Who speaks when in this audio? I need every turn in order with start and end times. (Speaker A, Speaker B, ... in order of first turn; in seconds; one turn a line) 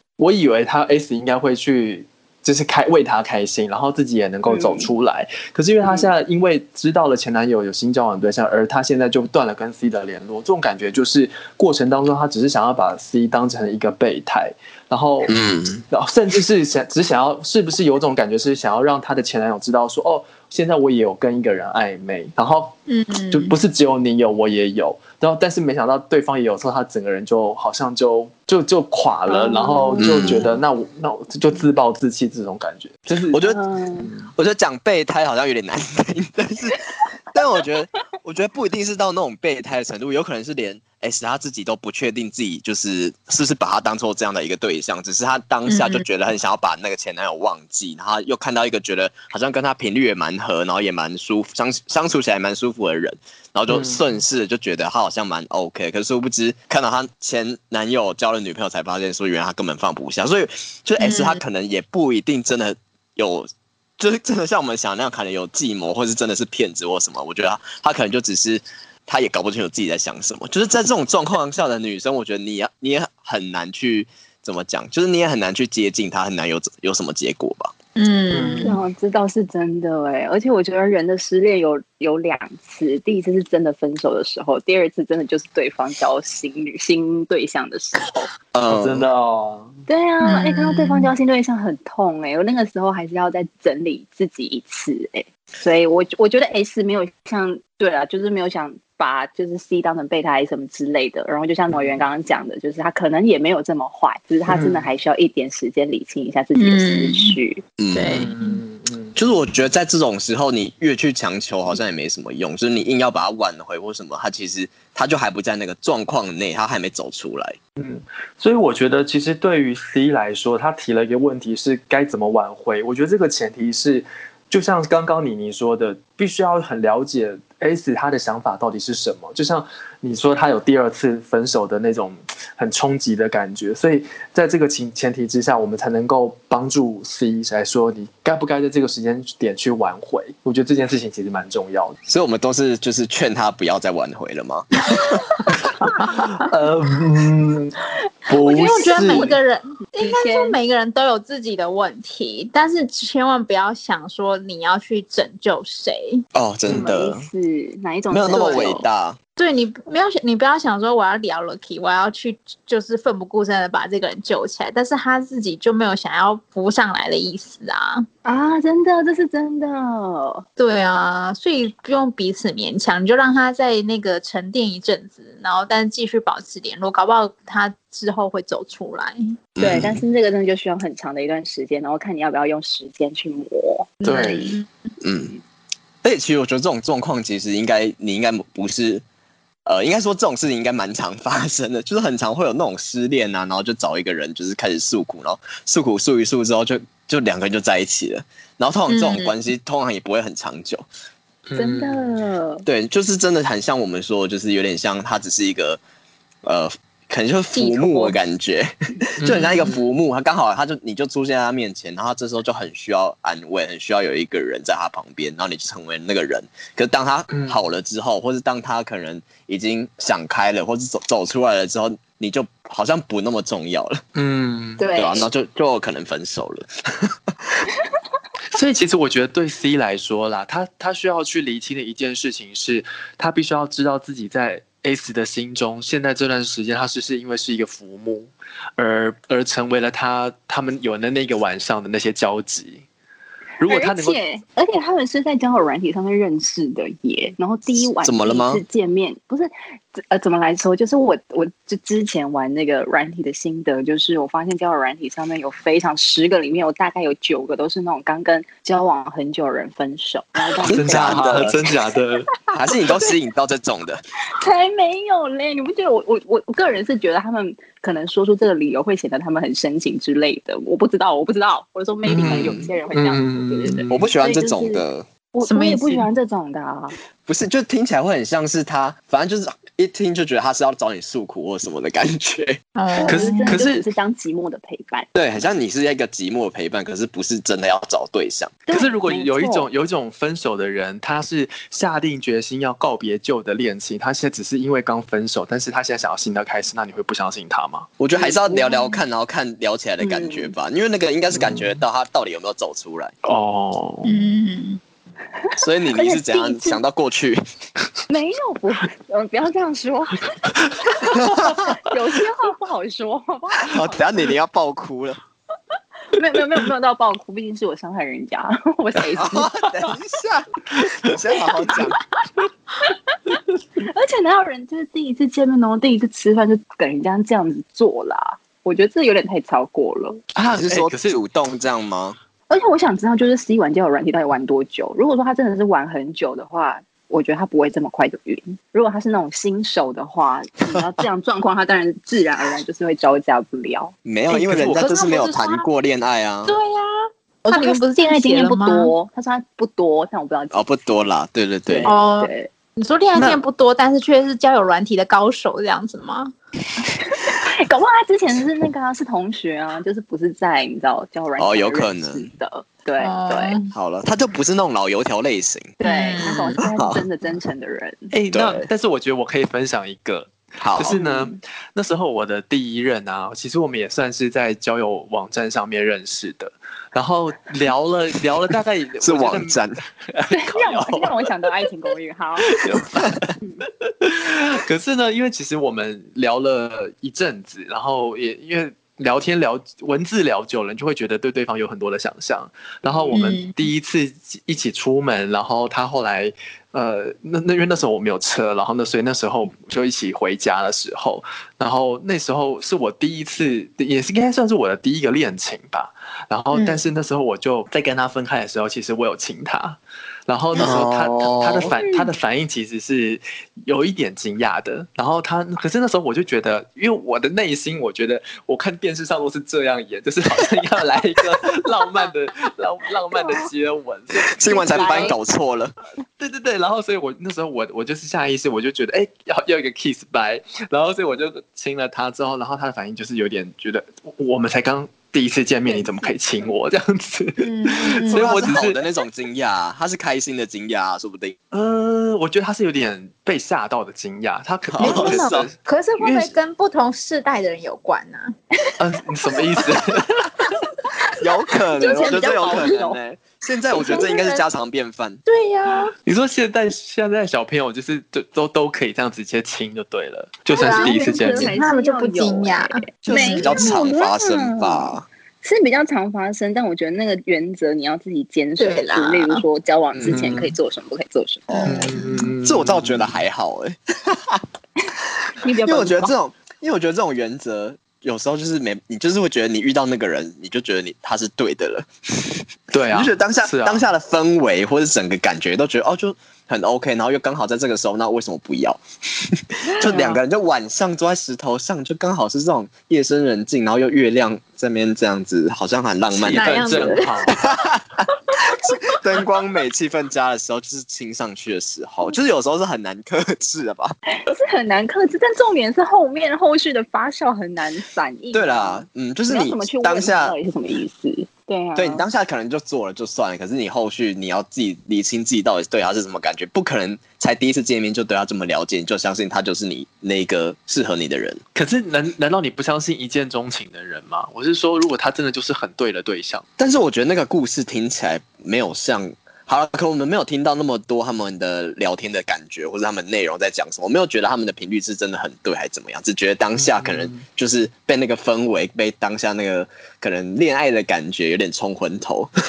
Speaker A: 0.2-15.4
Speaker B: 4.5-4.9
Speaker B: 5.8-6.1
Speaker C: 15.3-15.8
Speaker A: 15.9-22.8
Speaker D: 22.9-23.5
Speaker A: 23.3-34.3
Speaker B: 29.3-30.6
Speaker C: 30.0-30.5
Speaker C: 33.3-33.6
Speaker B: 33.5-34.1
Speaker C: 34.4-77.7
Speaker D: 45.7-46.0
Speaker A: 53.7-54.0
Speaker D: 61.0-61.4
Speaker D: 78.0-78.8
Speaker A: 78.3-78.8
Speaker B: 78.6-88.3
Speaker C: 88.5-89.0
Speaker A: 88.7-89.8
Speaker B: 89.9-107.6
Speaker D: 90.2-91.1
Speaker A: 104.5-104.8
Speaker D: 106.6-107.4
Speaker C: 107.8-108.3
Speaker D: 107.9-108.6
Speaker A: 108.1-109.2
Speaker C: 109.2-117.6
Speaker A: 117.8-142.0
Speaker C: 142.1-144.7
Speaker A: 145.6-147.8
Speaker A: 148.3-149.4
Speaker B: 148.4-149.4
Speaker D: 148.4-156.2
Speaker B: 150.0-150.6
Speaker C: 156.3-157.2
Speaker B: 156.7-158.9
Speaker C: 158.1-159.2
Speaker D: 158.3-158.6
Speaker D: 159.4-168.1
Speaker B: 168.2-170.4
Speaker D: 170.6-179.4
Speaker C: 179.6-180.0
Speaker B: 179.6-184.2
Speaker D: 184.0-184.7
Speaker A: 184.1-184.6
Speaker C: 185.0-185.4
Speaker C: 186.0-189.0
Speaker C: 189.7-200.8
Speaker D: 198.9-199.3
Speaker A: 201.5-202.2
Speaker B: 201.6-202.7
Speaker C: 202.7-205.8
Speaker C: 206.4-224.0
Speaker D: 207.5-208.2
Speaker A: 209.2-209.8
Speaker A: 217.3-217.6
Speaker A: 224.2-224.9
Speaker B: 224.8-225.3
Speaker C: 224.9-226.7
Speaker A: 228.5-242.8
Speaker A: 243.6-244.2
Speaker B: 243.6-261.7
Speaker C: 248.0-248.6
Speaker C: 260.6-261.6
Speaker A: 260.7-262.3
Speaker C: 262.5-264.0
Speaker B: 264.3-276.9
Speaker A: 272.1-274.0
Speaker C: 272.2-272.7
Speaker C: 273.9-275.1
Speaker D: 275.4-276.1
Speaker C: 277.3-282.6
Speaker D: 282.8-283.6
Speaker B: 282.9-285.1
Speaker A: 283.0-283.9
Speaker C: 285.1-288.6
Speaker B: 288.7-289.7
Speaker A: 288.7-297.9
Speaker C: 298.0-303.1
Speaker B: 298.1-299.0
Speaker B: 300.0-300.5
Speaker A: 301.3-301.8
Speaker A: 303.2-304.2
Speaker D: 304.1-304.8
Speaker B: 305.5-306.8
Speaker C: 305.6-307.4
Speaker B: 308.1-314.3
Speaker C: 311.1-311.6
Speaker C: 313.6-315.2
Speaker B: 316.1-319.7
Speaker C: 319.0-322.0
Speaker B: 322.9-330.2
Speaker A: 330.4-331.2
Speaker C: 330.5-332.2
Speaker B: 332.5-343.9
Speaker C: 344.1-346.6
Speaker A: 344.4-344.9
Speaker D: 344.8-345.7
Speaker D: 346.5-348.9
Speaker B: 347.4-350.8
Speaker C: 350.5-351.9
Speaker B: 351.7-352.5
Speaker D: 351.9-356.3
Speaker B: 356.9-363.6
Speaker C: 361.4-362.3
Speaker D: 363.0-363.7
Speaker C: 363.7-365.7
Speaker D: 365.8-366.6
Speaker B: 365.8-368.1
Speaker C: 366.8-367.0
Speaker A: 368.1-379.6
Speaker C: 368.3-368.7
Speaker C: 370.6-371.0
Speaker B: 370.9-371.4
Speaker C: 379.0-379.8
Speaker A: 380.1-381.4
Speaker B: 380.3-382.6
Speaker A: 382.5-425.0
Speaker B: 383.4-383.7
Speaker D: 393.1-393.6
Speaker D: 406.5-406.9
Speaker C: 410.6-411.7
Speaker B: 411.6-412.1
Speaker B: 423.1-423.5
Speaker C: 424.2-425.7
Speaker B: 424.5-425.2
Speaker A: 426.2-438.8
Speaker B: 435.7-436.1
Speaker D: 437.4-438.4
Speaker C: 438.1-441.4
Speaker A: 441.5-446.3
Speaker C: 444.7-445.5
Speaker D: 444.8-448.4
Speaker A: 448.8-450.3
Speaker C: 451.2-455.2
Speaker B: 451.8-453.0
Speaker D: 451.8-452.9
Speaker D: 453.7-454.4
Speaker D: 455.3-455.9
Speaker A: 456.1-461.6
Speaker D: 460.5-463.7
Speaker B: 460.5-471.9
Speaker C: 463.1-465.1
Speaker D: 468.6-469.4
Speaker C: 469.9-470.3
Speaker A: 470.1-470.5
Speaker C: 471.5-474.4
Speaker D: 471.5-472.3
Speaker A: 471.7-473.1
Speaker B: 475.4-476.1
Speaker C: 475.6-482.4
Speaker A: 482.7-483.9
Speaker C: 482.9-503.9
Speaker B: 489.7-490.2
Speaker A: 496.1-497.4
Speaker D: 496.3-497.4
Speaker B: 504.1-512.0
Speaker C: 508.3-510.4
Speaker C: 511.8-521.4
Speaker A: 521.5-526.5
Speaker C: 526.6-542.3
Speaker A: 536.6-537.2